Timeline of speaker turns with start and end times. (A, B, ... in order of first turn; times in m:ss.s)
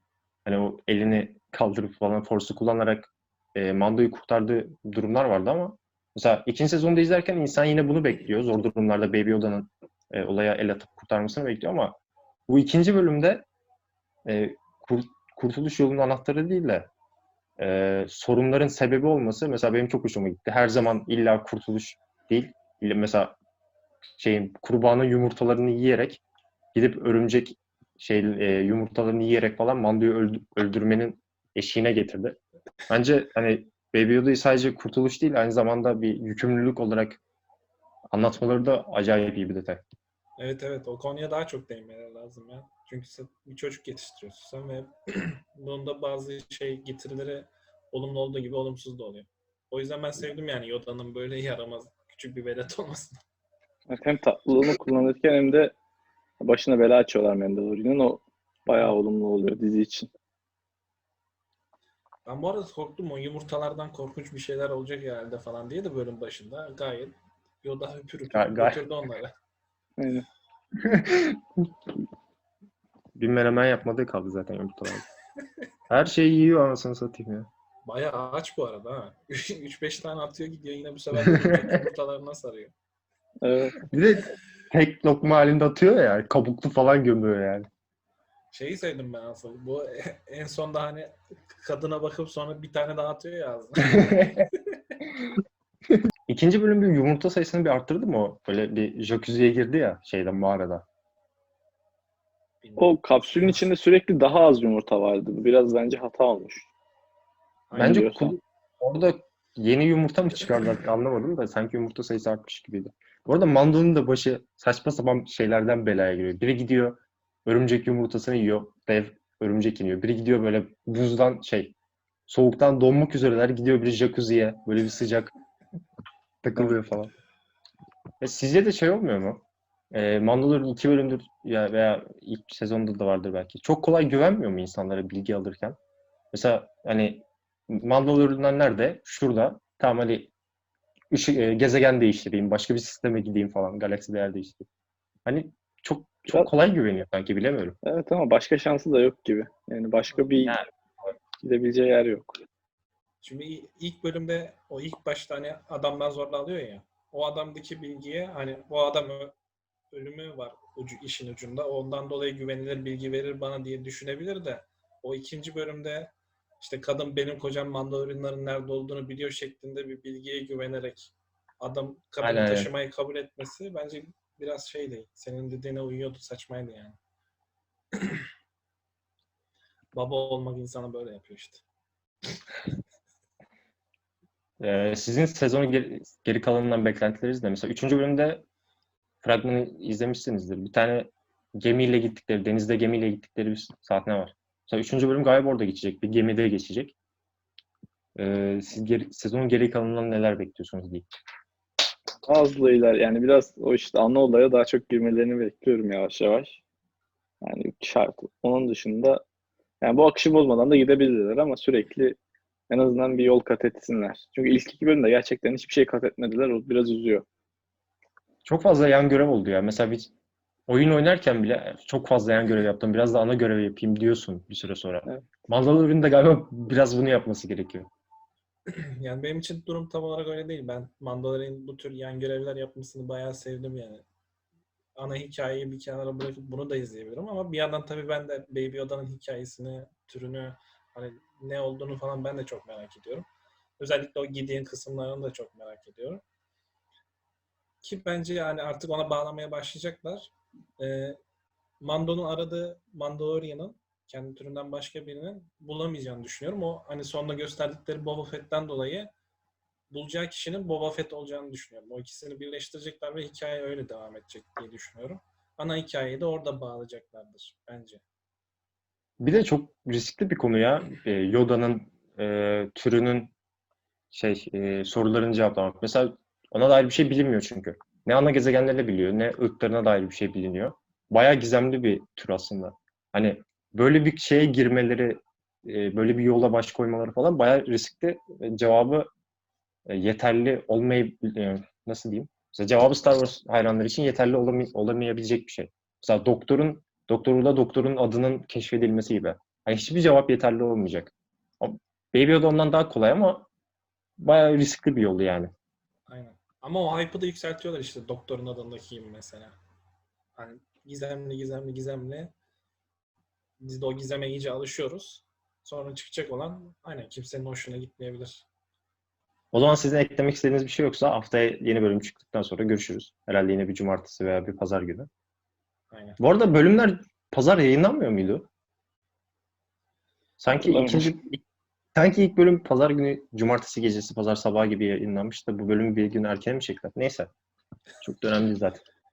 0:00.4-0:11.9 A
0:12.5-0:13.4 A
0:14.2-0:16.9 A
0:17.6-0:23.3 A
0:24.2-0:26.2 A
0:26.7-0:32.4 A
0:32.9-0:37.2 A
0:38.1-0:39.8 A
0:40.4-0:53.2 B
0:53.9-0:55.7 C
0:56.4-1:00.1 C
1:02.2-1:09.3 B
1:08.3-1:08.8 A
1:10.0-1:10.2 C
1:10.8-1:11.6 A
1:13.2-1:15.0 A
1:15.9-1:17.5 A
1:17.8-1:22.7 B
1:21.2-1:21.8 A
1:23.4-1:23.8 C
1:23.9-1:27.7 A
1:28.5-1:34.6 B
1:34.0-1:34.3 A
1:36.3-1:40.8 A
1:42.6-1:43.6 B
1:42.8-1:46.7 C
1:47.7-1:48.0 B
1:47.7-1:48.3 C
1:47.7-2:01.7 A
2:02.3-2:05.3 A
2:06.4-2:07.1 A
2:06.5-2:06.9 B
2:08.2-2:15.8 A
2:16.3-2:20.3 A
2:21.1-2:24.6 A
2:25.2-2:27.8 A
2:27.8-2:30.6 C
2:31.4-2:32.3 C
2:33.2-2:39.4 B
2:39.9-2:57.0 B
2:52.2-2:52.7 A
2:59.9-3:01.6 B
3:04.6-3:08.4 A
3:09.2-3:16.9 A
3:18.2-3:21.0 A
3:22.2-3:26.6 C
3:27.4-3:29.2 C
3:29.8-3:32.2 C
3:32.7-3:37.2 C
3:38.4-3:40.1 A
3:40.7-3:47.9 A
3:45.0-3:45.3 C
3:48.7-3:54.0 B
3:54.9-4:03.3 B
4:03.8-4:06.2 B
4:07.8-4:11.2 B
4:11.8-4:19.1 B
4:19.9-4:28.0 B
4:29.2-4:33.3 A
4:34.1-4:49.1 A
4:49.8-5:03.5 A
5:04.2-5:05.5 A
5:06.1-5:09.5 B
5:10.4-5:12.3 B
5:13.6-5:18.5 B
5:19.5-5:25.1 A
5:25.9-5:26.2 B
5:26.2-5:28.5 A
5:30.4-5:31.4 A
5:30.5-5:31.1 C
5:31.9-5:37.3 A
5:38.0-5:38.8 A